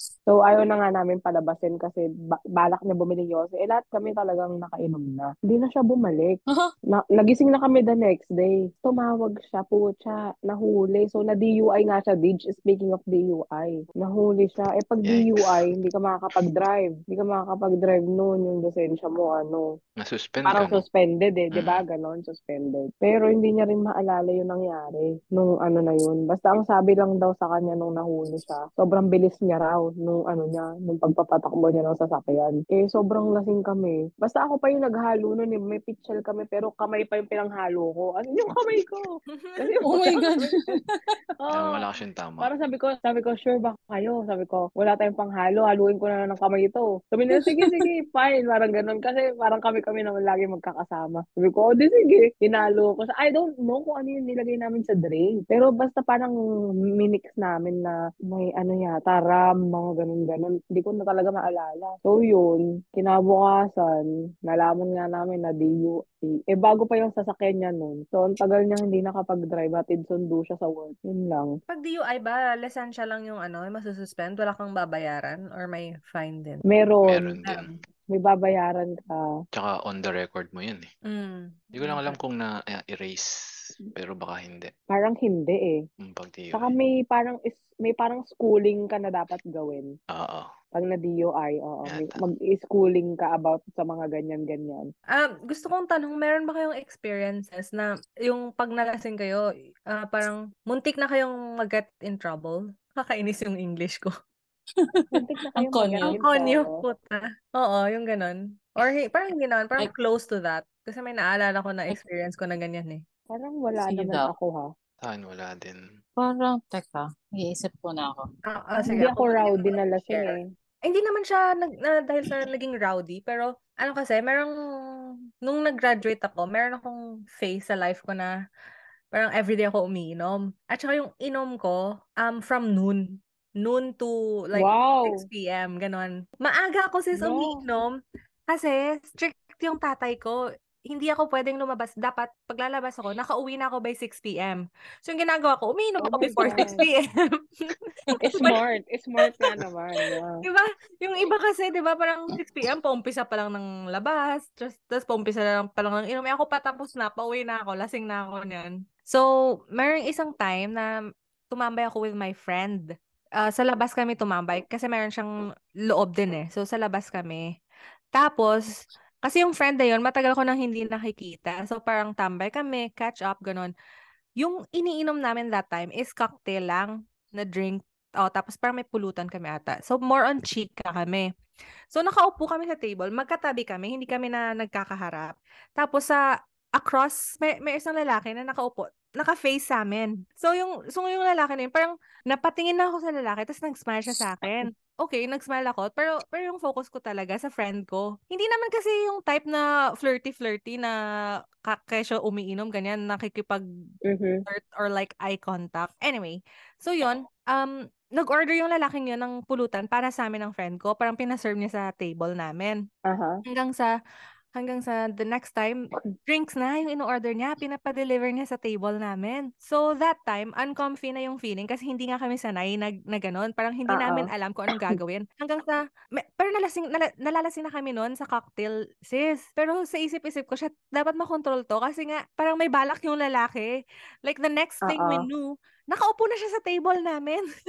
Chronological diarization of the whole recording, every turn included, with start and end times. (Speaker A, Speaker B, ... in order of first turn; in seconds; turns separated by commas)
Speaker A: 0.3-6.4, Speaker A: 6.9-19.6, Speaker B: 15.1-15.7, Speaker B: 20.0-20.8, Speaker A: 20.4-39.1, Speaker B: 21.5-21.8, Speaker C: 39.4-39.9, Speaker A: 39.6-40.7, Speaker D: 39.9-41.0, Speaker A: 41.4-41.9, Speaker B: 41.5-42.5, Speaker A: 42.4-56.4, Speaker D: 47.4-47.9, Speaker A: 57.0-71.5, Speaker C: 71.7-76.6, Speaker A: 76.7-77.4, Speaker B: 77.1-77.7, Speaker A: 78.1-79.3, Speaker B: 79.5-80.9, Speaker C: 81.1-82.2, Speaker B: 81.8-84.7, Speaker A: 84.9-85.8, Speaker B: 86.0-86.7, Speaker A: 86.5-89.9, Speaker B: 90.1-90.5, Speaker A: 90.7-94.9, Speaker B: 91.9-92.2, Speaker C: 95.1-104.1, Speaker A: 105.1-106.8, Speaker D: 105.6-106.2, Speaker C: 106.0-113.0, Speaker A: 113.3-114.7, Speaker D: 113.9-114.3, Speaker B: 115.0-115.8, Speaker D: 116.2-118.3, Speaker C: 118.5-120.3, Speaker A: 118.9-120.4, Speaker C: 120.8-124.5, Speaker C: 125.5-128.3, Speaker C: 129.1-133.0, Speaker C: 133.6-138.0, Speaker A: 134.6-135.1, Speaker A: 137.2-137.6, Speaker C: 138.5-140.4, Speaker C: 140.9-148.6, Speaker A: 146.0-146.8, Speaker D: 146.3-146.8, Speaker A: 148.2-150.4, Speaker C: 149.2-149.6, Speaker C: 150.4-160.9, Speaker C: 161.5-162.9, Speaker C: 163.4-167.4, Speaker C: 168.1-168.7, Speaker C: 169.2-173.7, Speaker C: 174.4-181.3, Speaker C: 181.9-186.2, Speaker C: 186.8-200.9, Speaker C: 201.7-203.6, Speaker A: 204.1-204.4, Speaker C: 204.5-212.8, Speaker A: 213.1-213.4, Speaker C: 213.5-213.9, Speaker C: 214.6-237.4, Speaker A: 223.9-224.2, Speaker A: 234.8-235.2